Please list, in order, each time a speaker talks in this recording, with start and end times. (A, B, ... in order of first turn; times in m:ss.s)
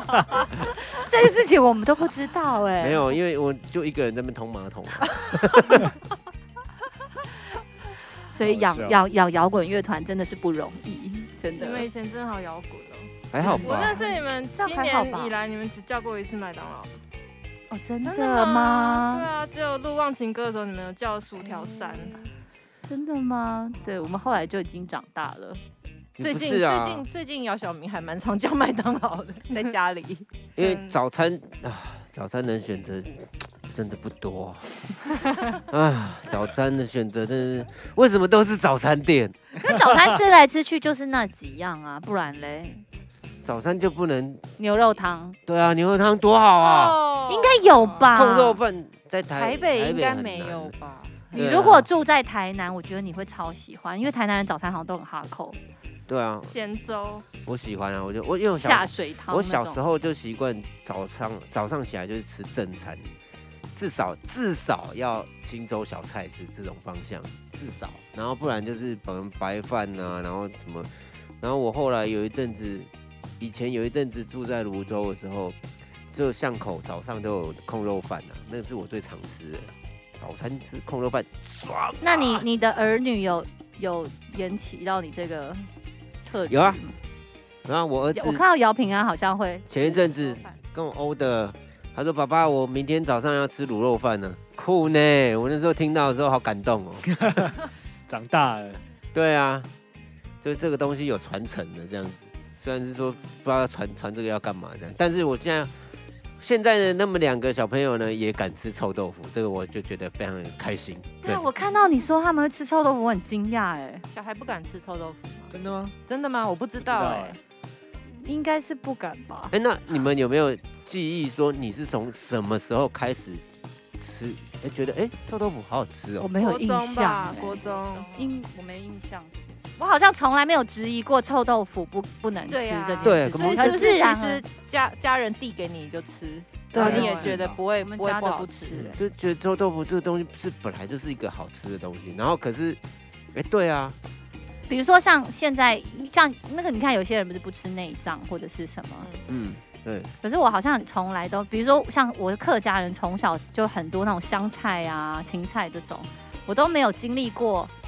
0:00.4-0:03.1 A
0:02.8-0:05.9 B
0:08.3-0:11.9 A
0:08.4-0:09.0 C
0:11.5-0:16.9 D
0:13.3-0:14.0 B
0:13.6-0:15.3 A
0:17.7-0:19.3 A
0:18.0-0:22.2 D
0:21.4-0:22.3 E
0:22.9-0:25.6 A
0:26.2-0:27.1 B
0:26.2-0:30.3 E
0:30.6-0:39.4 B
0:30.6-0:30.9 D
0:39.6-0:42.8 A
0:43.4-0:44.5 B
0:44.6-0:45.4 A
0:45.4-0:47.0 B
0:46.6-0:48.0 E
0:47.3-0:48.6 A
0:48.1-0:50.7 B
0:49.3-0:51.8 E
0:51.3-0:51.9 B
0:51.3-0:55.6 A
0:56.1-0:56.6 B
0:56.5-0:57.2 D
0:57.4-1:03.1 B
0:58.6-0:59.8 A
1:03.7-1:10.9 B
1:11.4-1:12.9 B
1:13.4-1:15.6 B
1:16.1-1:22.4 B
1:22.0-1:25.7 A
1:26.2-1:27.0 A
1:26.5-1:26.8 B
1:27.6-1:28.4 B
1:28.1-1:29.7 A
1:29.7-1:37.1 B
1:29.8-1:30.6 E
1:37.1-1:37.5 C
1:38.1-1:38.8 C
1:39.1-1:39.7 B
1:40.4-1:45.7 B
1:46.4-1:51.4 B
1:51.2-1:54.0 A
1:54.1-1:55.5 E
1:55.5-1:55.9 C
1:56.1-1:57.4 E
1:56.8-1:57.4 C
1:58.1-1:59.5 A
1:59.5-2:03.4 B
2:04.0-2:06.3 B
2:06.2-2:14.4 A
2:06.4-2:08.4 D
2:12.5-2:18.9 E
2:13.0-2:13.9 B
2:16.7-2:17.4 B
2:16.8-2:17.6 C
2:16.8-2:19.0 A
2:18.8-2:22.8 B
2:23.3-2:24.0 B
2:24.7-2:29.1 A
2:29.3-2:30.1 B
2:30.2-2:37.7 A